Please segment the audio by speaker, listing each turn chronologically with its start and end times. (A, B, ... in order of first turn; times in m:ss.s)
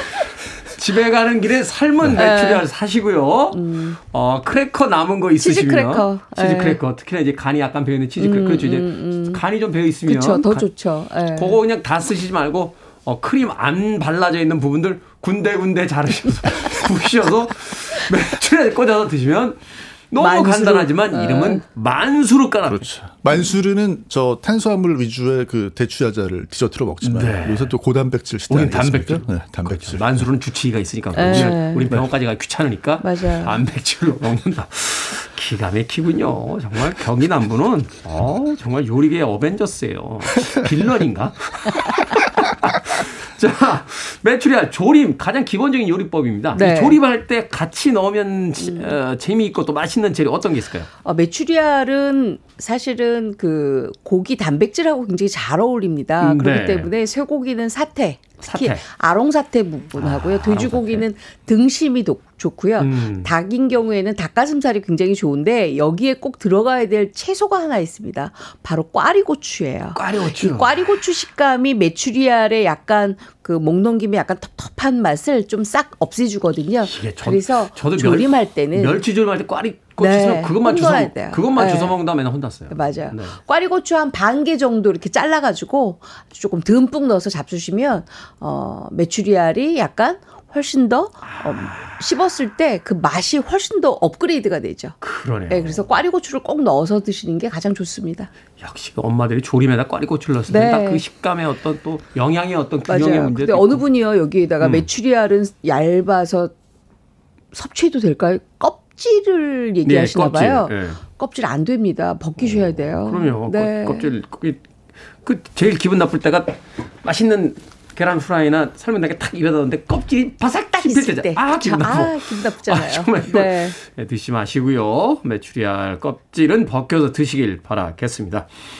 0:00.6-0:10.7 A
0:02.1-0:02.6 B
0:03.5-0:04.0 B
0:05.4-0:06.8 B
0:08.2-0:09.4 B
0:10.0-0:11.6 B
0:11.3-0:22.9 A
0:20.2-0:21.6 B
0:22.7-0:30.3 C
0:27.0-0:27.7 A
0:28.5-0:50.9 A
0:31.1-0:31.9 B
0:31.2-0:32.0 C
0:33.0-0:33.6 B
0:46.5-0:47.0 B
0:48.6-0:48.9 B
0:51.0-1:19.0 B
0:56.2-0:56.9 A
0:58.4-0:58.8 A
1:00.0-1:01.0 A
1:02.8-1:03.3 A
1:09.9-1:10.7 A
1:16.8-1:23.4 A
1:20.0-1:22.0 B
1:22.7-1:35.0 B
1:31.3-1:31.9 A
1:35.0-1:35.9 A
1:35.5-1:38.3 B
1:38.6-1:43.8 A
1:40.5-1:41.0 B
1:42.9-1:46.5 B
1:44.6-1:44.9 A
1:47.5-1:54.1 B
1:49.8-1:51.0 A
1:52.4-1:54.6 A
1:55.2-2:08.5 A
2:00.8-2:03.8 B